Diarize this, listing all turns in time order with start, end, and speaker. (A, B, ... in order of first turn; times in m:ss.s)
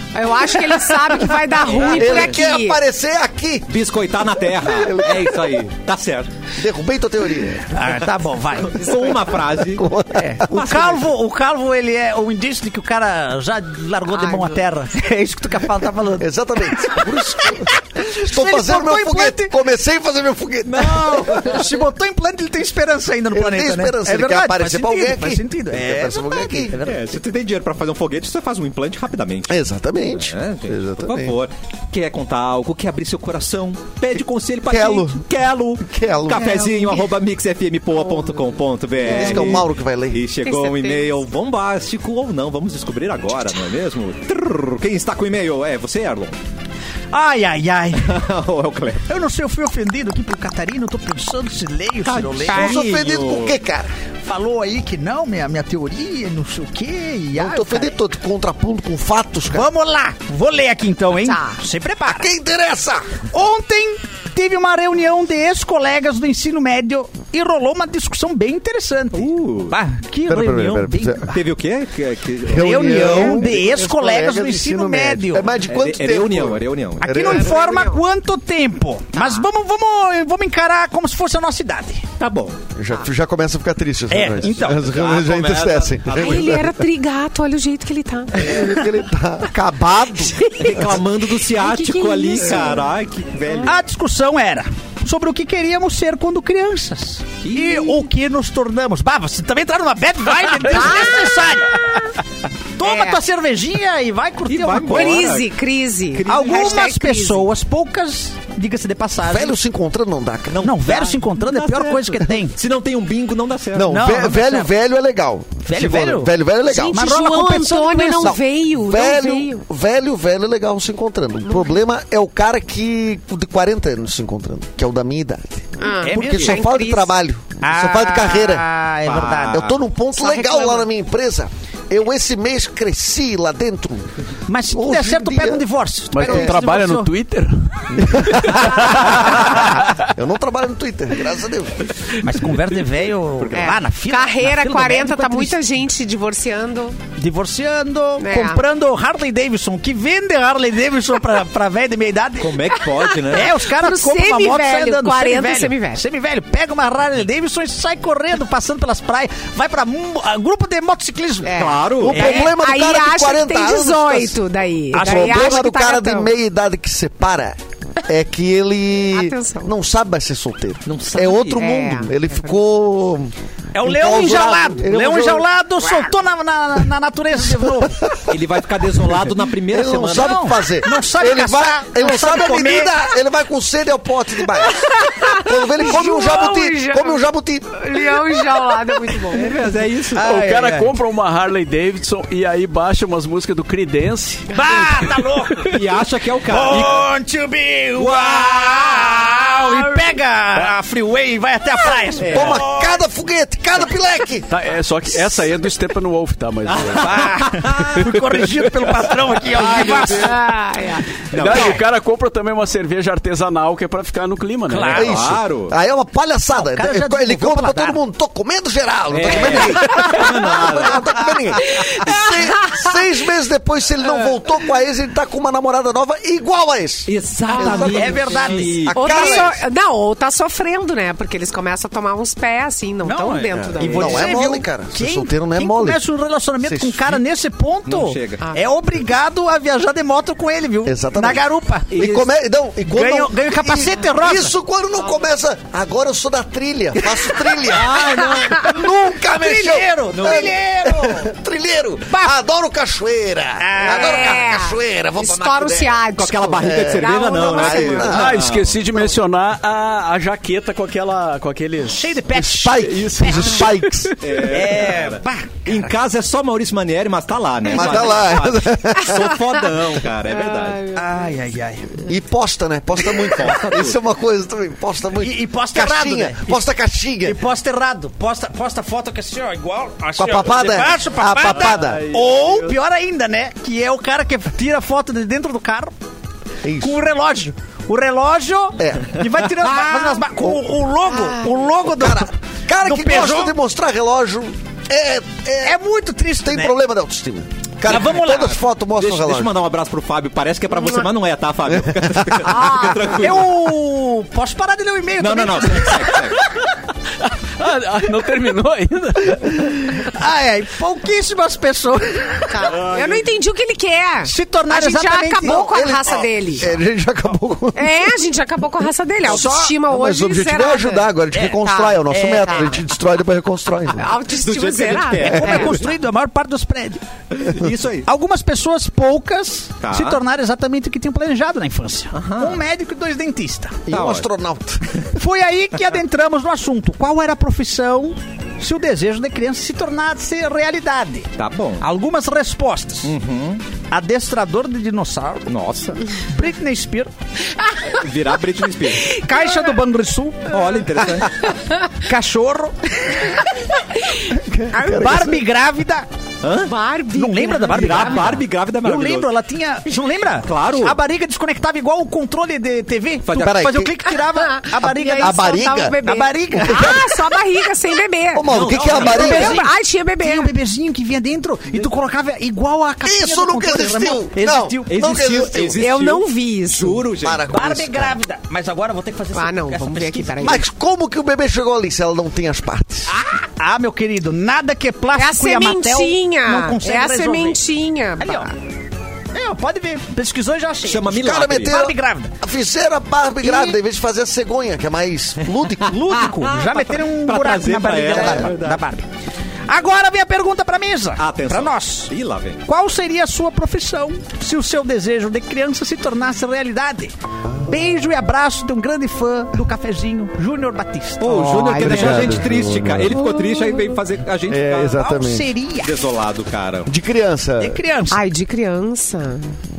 0:00.1-0:02.8 A
0:01.7-0:02.1 B
0:01.8-0:03.7 C
0:03.7-0:06.3 B
0:04.6-0:05.5 C
0:06.6-0:07.8 C
0:07.7-0:08.9 D
0:08.6-0:09.9 B
0:08.8-0:09.1 A
0:09.6-0:10.5 C
0:10.1-0:19.6 D
0:10.5-0:11.0 B
0:14.1-0:14.6 A
0:16.2-0:21.4 C
0:20.6-0:21.6 B
0:20.8-0:27.1 D
0:23.3-0:26.8 C
0:26.8-0:29.5 B
0:29.5-0:31.4 C
0:30.1-0:46.3 B
0:34.7-0:35.2 C
0:35.8-0:36.5 C
0:36.3-0:37.1 A
0:39.0-0:40.2 C
0:40.5-0:41.1 A
0:47.1-0:48.2 D
0:48.0-0:49.1 B
0:49.0-0:52.7 D
0:52.0-0:53.6 B
0:52.5-0:52.8 A
0:52.5-0:53.9 C
0:54.2-0:58.0 D
0:57.3-0:59.7 C
0:59.5-1:02.3 D
1:01.2-1:01.6 A
1:02.0-1:03.2 C
1:03.3-1:11.4 D
1:09.1-1:09.8 B
1:10.2-1:11.3 C
1:11.3-1:13.5 B
1:12.4-1:17.6 C
1:12.5-1:15.5 D
1:15.7-1:17.1 B
1:17.0-1:22.1 D
1:17.3-1:18.0 A
1:19.2-1:19.4 A
1:22.2-1:22.6 B
1:22.7-1:26.8 C
1:24.1-1:24.8 D
1:24.6-1:26.8 B
1:26.1-1:28.8 A
1:28.3-1:30.5 C
1:30.3-1:33.7 B
1:30.4-1:32.9 A
1:33.6-1:42.0 D
1:37.4-1:38.0 B
1:40.6-1:42.0 A
1:42.8-1:45.3 D
1:42.8-1:43.2 A
1:44.5-1:46.9 B
1:44.9-1:47.4 A
1:46.2-1:49.5 D
1:49.2-1:50.6 C
1:50.5-1:54.0 B
1:50.6-1:52.6 D
1:53.7-1:57.0 C
1:53.8-1:54.7 D
1:55.6-1:56.3 D
1:56.7-1:59.6 A
1:56.9-1:58.4 D
1:58.2-2:08.6 C
2:01.4-2:01.8 A
2:05.8-2:07.1 A
2:06.0-2:06.7 D
2:07.6-2:09.7 D
2:09.0-2:09.8 B
2:09.4-2:14.1 C
2:10.2-2:10.9 A
2:14.5-2:17.1 D
2:14.7-2:15.6 C
2:16.1-2:20.0 E
2:16.2-2:16.5 C
2:18.0-2:21.8 C
2:22.2-2:25.6 D
2:23.5-2:27.0 A
2:27.1-2:32.7 D
2:28.2-2:28.6 A
2:32.4-2:33.5 B
2:33.2-2:36.0 A
2:33.3-2:42.5 D
2:41.4-2:46.3 A
2:41.5-2:42.2 B
2:42.0-2:44.4 C
2:44.9-2:45.4 D
2:44.9-2:55.5 C
2:49.1-2:49.7 A
2:50.8-2:51.8 B
2:51.5-2:52.2 A
2:53.7-2:58.1 D
2:55.8-2:56.1 A
2:57.7-2:58.3 C
2:58.3-3:00.4 B
2:59.1-3:08.4 C
3:00.0-3:03.0 D
3:04.5-3:07.2 A
3:07.8-3:09.6 A
3:09.3-3:10.3 B
3:10.1-3:15.8 E
3:10.2-3:10.9 D
3:14.5-3:15.8 D
3:15.7-3:17.1 B
3:16.4-3:23.0 D
3:18.0-3:19.3 B
3:22.2-3:22.6 B
3:22.3-3:24.5 C
3:24.5-3:27.3 E
3:26.7-3:28.0 B
3:26.9-3:30.4 D
3:27.9-3:30.3 E
3:29.5-3:30.4 B
3:30.2-3:31.2 A
3:31.3-3:35.1 E
3:31.3-3:31.8 B
3:34.7-3:35.2 D
3:34.9-3:49.6 C
3:35.0-3:35.7 B
3:36.5-3:38.0 D
3:39.1-3:41.6 B
3:41.7-3:43.0 A
3:47.0-3:49.5 B
3:47.5-3:48.1 A
3:47.6-3:48.9 D
3:48.9-3:54.4 A
3:53.0-4:02.0 D
3:53.5-3:56.0 C
3:56.6-3:57.1 C
3:57.9-3:58.4 B
3:58.4-3:58.7 A
4:00.8-4:18.4 C
4:01.9-4:02.3 B
4:02.8-4:04.5 D
4:07.5-4:08.8 B
4:08.3-4:08.6 A
4:09.2-4:11.3 D
4:10.1-4:10.5 B
4:12.1-4:12.4 D
4:13.6-4:14.5 D
4:13.8-4:18.3 A
4:16.2-4:18.8 B
4:18.0-4:22.2 E
4:21.9-4:23.7 D
4:22.3-4:24.1 C
4:22.7-4:24.2 E
4:24.2-4:30.9 B
4:24.4-4:25.8 D
4:27.7-4:29.3 C
4:30.3-4:31.1 A
4:30.9-4:32.0 D
4:32.0-4:37.4 C
4:33.0-4:34.0 B
4:35.2-4:36.6 D
4:37.2-4:45.9 D
4:40.2-4:42.0 C
4:41.8-4:42.7 E
4:46.6-4:47.0 C
4:46.8-4:53.6 D
4:48.8-4:49.2 C
4:51.1-4:51.5 A
4:51.8-4:55.8 C
4:55.6-4:56.8 D
4:56.4-4:59.6 C
4:57.8-4:58.6 D
4:57.9-5:03.7 B
5:01.7-5:02.6 C
5:02.5-5:03.0 A
5:02.6-5:06.6 D
5:05.2-5:06.4 B
5:07.2-5:09.7 E
5:09.9-5:12.7 D
5:12.5-5:16.7 A
5:12.6-5:13.3 B
5:14.2-5:15.6 D
5:15.4-5:18.1 C
5:17.8-5:22.8 A
5:19.2-5:19.7 D
5:19.3-5:24.1 C
5:21.3-5:22.8 D
5:23.9-5:25.8 A
5:24.3-5:25.8 B
5:25.2-5:27.0 D
5:27.3-5:28.1 B
5:28.0-5:33.8 D
5:29.8-5:30.2 B
5:32.1-5:32.6 B
5:33.8-5:34.9 C
5:33.9-5:34.3 B
5:35.1-5:43.1 D
5:41.4-5:41.8 B
5:43.0-5:43.6 B
5:43.9-5:45.5 D
5:45.5-5:46.0 B
5:46.3-5:47.1 D
5:47.9-5:49.2 B
5:49.0-5:50.6 D
5:49.3-5:49.6 A
5:50.5-5:51.5 B
5:52.0-5:53.4 D
5:54.3-5:55.4 C
5:54.7-5:56.1 D
5:54.8-5:55.1 A
5:56.4-5:56.7 B
5:56.6-5:58.4 A
5:57.1-6:07.0 D
5:57.7-5:59.3 B
6:00.4-6:01.0 B
6:03.2-6:03.6 B
6:03.4-6:03.9 C
6:04.2-6:10.5 A
6:05.2-6:06.0 C
6:06.6-6:07.1 C
6:08.3-6:09.6 C
6:08.5-6:09.6 B
6:08.8-6:15.0 D
6:13.0-6:15.8 C
6:14.9-6:17.5 B
6:15.8-6:17.0 A
6:17.2-6:18.2 C
6:17.5-6:20.6 D
6:19.3-6:20.6 A
6:20.4-6:23.1 C
6:23.1-6:27.6 D
6:25.1-6:28.6 A
6:28.2-6:28.5 D
6:29.3-6:32.3 D
6:30.8-6:31.8 B
6:31.1-6:35.9 C
6:33.4-6:33.8 D
6:35.8-6:39.0 D
6:35.9-6:38.8 B
6:38.1-6:38.5 C
6:39.7-6:42.1 D
6:41.2-6:42.6 B
6:42.6-6:51.6 D
6:51.2-6:55.0 B
6:51.3-6:52.4 A
6:51.8-6:53.2 C
6:53.1-6:54.0 A
6:54.5-6:55.5 C
6:55.0-6:56.0 D
6:55.8-6:56.9 B
6:56.9-6:57.8 C
6:57.6-6:58.2 D
6:58.1-6:59.6 A